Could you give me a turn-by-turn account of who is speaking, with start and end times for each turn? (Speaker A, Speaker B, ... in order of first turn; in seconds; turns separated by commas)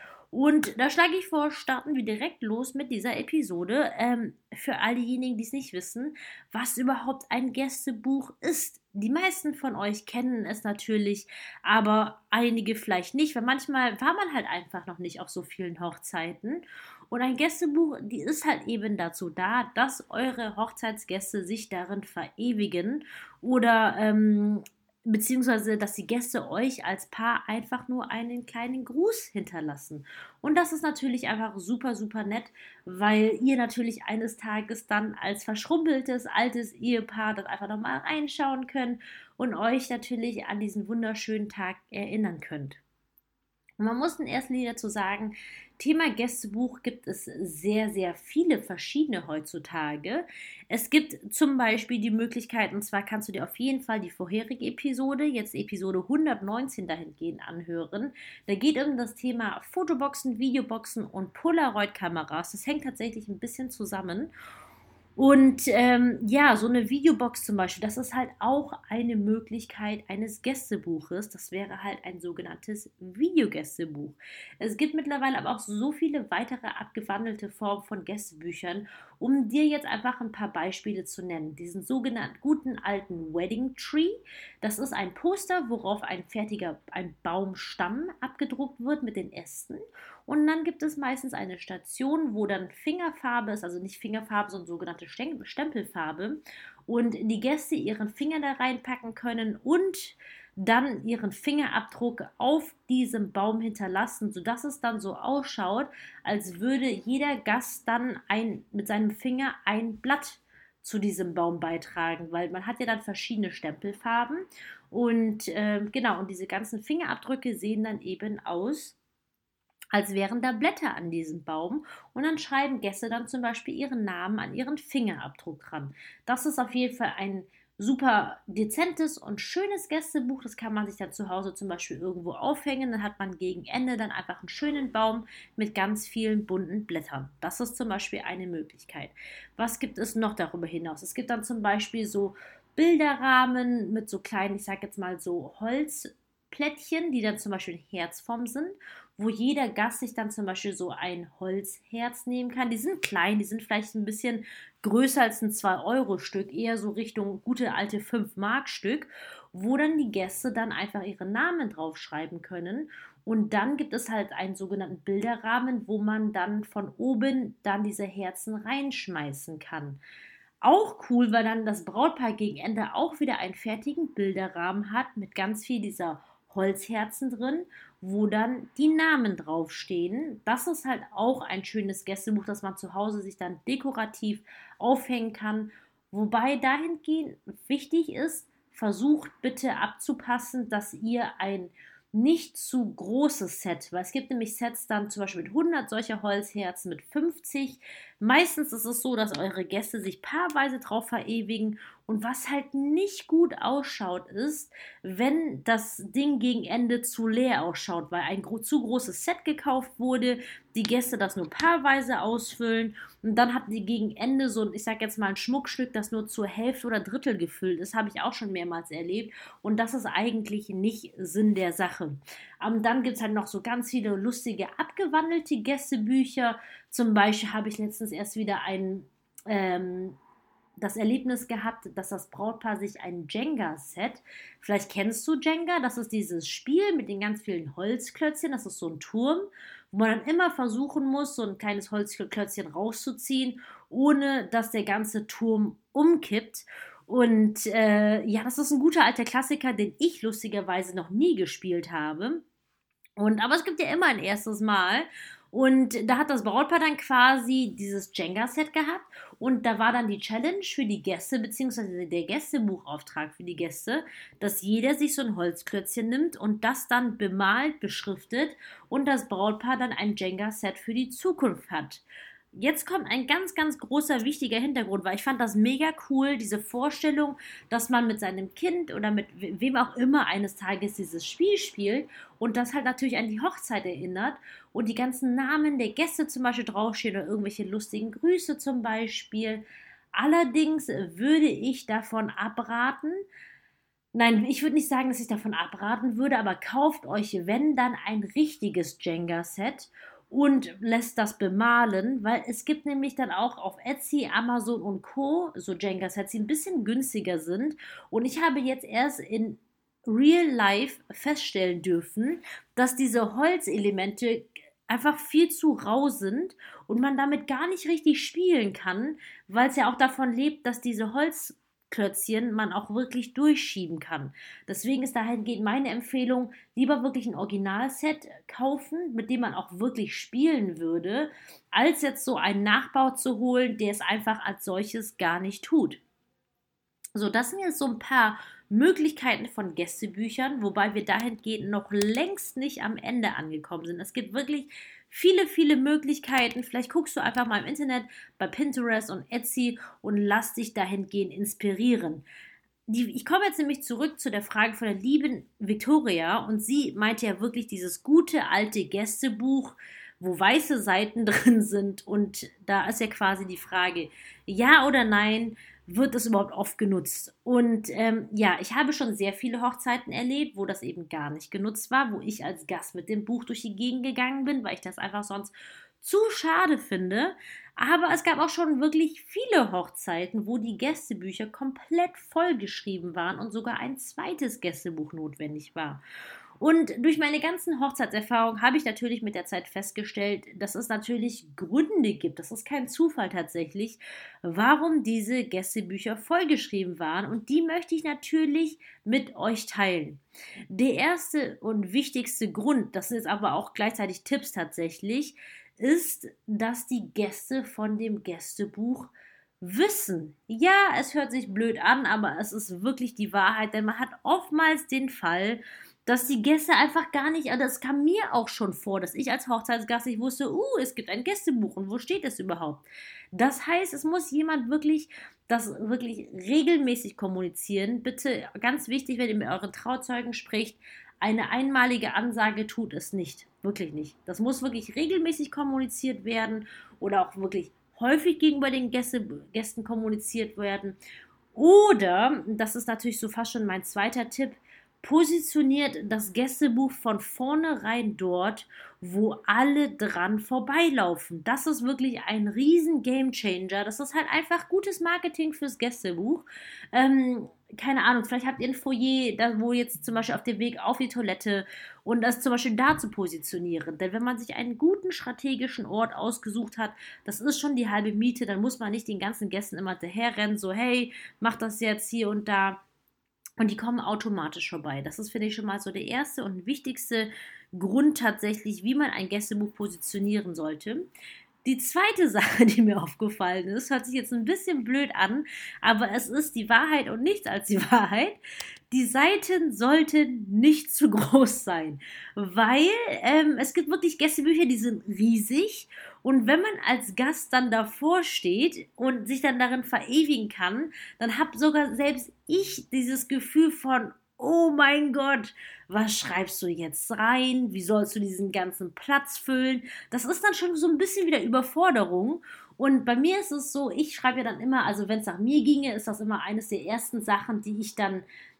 Speaker A: 0.3-42.8, Speaker A: 43.8-64.3, Speaker A: 65.2-119.0, Speaker A: 119.9-170.0, Speaker A: 170.6-230.2, Speaker A: 230.8-252.4, Speaker A: 253.2-293.2, Speaker A: 294.1-336.0, Speaker A: 337.1-352.2, Speaker A: 352.9-386.0, Speaker A: 386.6-422.8, Speaker A: 423.3-441.0, Speaker A: 441.5-472.8, Speaker A: 473.6-481.1, Speaker A: 481.6-488.4, Speaker A: 488.9-518.2